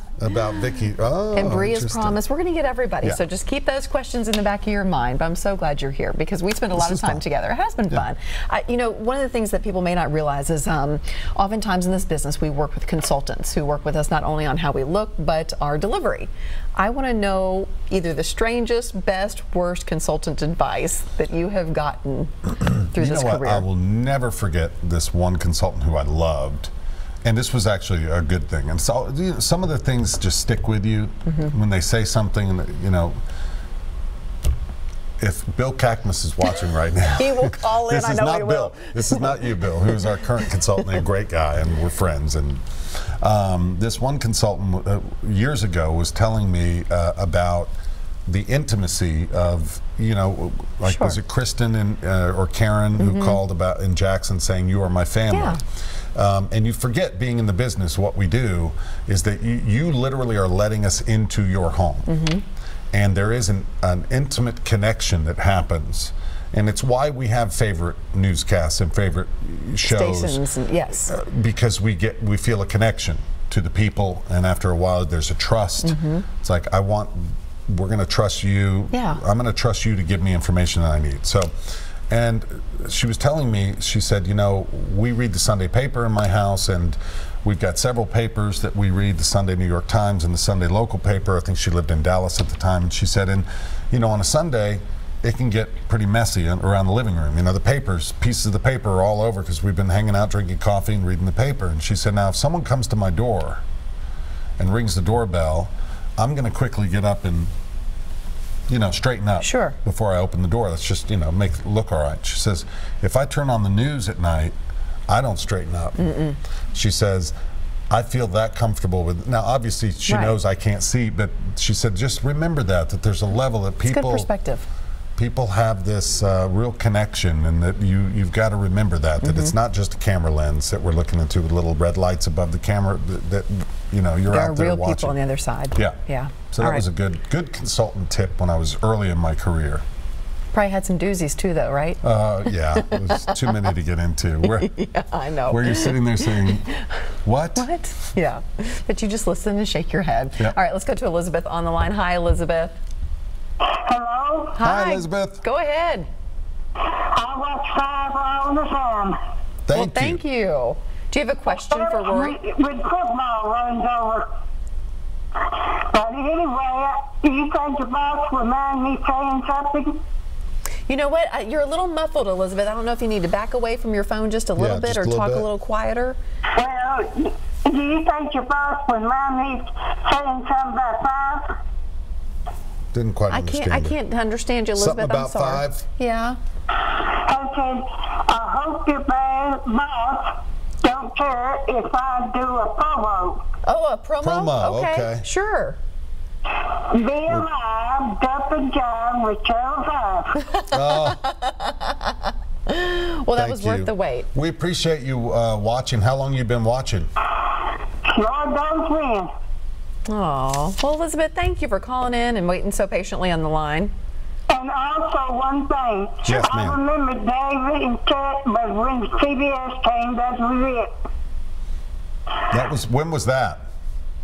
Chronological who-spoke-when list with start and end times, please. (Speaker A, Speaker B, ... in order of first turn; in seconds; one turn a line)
Speaker A: 0.2-2.2
Speaker B: 1.3-22.3
Speaker A: 6.7-7.2
Speaker A: 22.6-26.7
Speaker B: 22.9-23.6
Speaker A: 27.2-33.2
Speaker A: 35.2-47.7
Speaker B: 37.1-40.2
Speaker A: 48.3-55.6
Speaker B: 50.9-51.2
Speaker B: 53.0-53.4
Speaker B: 55.3-55.6
Speaker A: 56.1-62.1
Speaker B: 62.1-62.4
Speaker A: 62.9-70.4
Speaker B: 69.8-71.1
Speaker A: 71.1-81.5
Speaker B: 75.8-76.2
Speaker B: 78.9-79.2
Speaker A: 82.1-103.6
Speaker A: 104.6-107.5
Speaker A: 108.7-114.5
Speaker B: 109.4-109.8
Speaker A: 115.1-116.1
Speaker B: 116.0-116.4
Speaker A: 116.7-117.3
Speaker A: 117.9-124.3
Speaker B: 120.1-120.3
Speaker B: 123.9-124.7
Speaker A: 125.2-135.2
Speaker B: 129.2-129.5
Speaker B: 134.3-136.8
Speaker A: 136.5-139.8
Speaker B: 140.5-142.0
Speaker A: 142.0-144.7
Speaker B: 142.7-143.6
Speaker B: 144.4-146.8
Speaker A: 145.5-146.7
Speaker A: 147.2-147.7
Speaker B: 147.6-152.7
Speaker C: 153.6-154.6
Speaker B: 154.6-156.1
Speaker A: 154.6-155.4
Speaker C: 156.8-159.2
Speaker A: 159.7-160.2
Speaker B: 159.7-162.4
Speaker C: 161.5-164.3
Speaker C: 165.4-169.9
Speaker B: 170.9-176.2
Speaker A: 174.6-175.5
Speaker C: 176.5-181.6
Speaker A: 182.9-183.9
Speaker B: 183.3-186.4
Speaker A: 184.7-185.8
Speaker C: 186.8-193.4
Speaker B: 193.6-195.8
Speaker A: 194.2-195.2
Speaker C: 196.6-200.4
Speaker B: 200.4-204.3
Speaker A: 200.7-201.2
Speaker A: 203.3-207.1
Speaker C: 208.0-209.3
Speaker B: 210.1-213.9
Speaker C: 214.5-220.9
Speaker A: 216.2-216.8
Speaker A: 222.5-223.7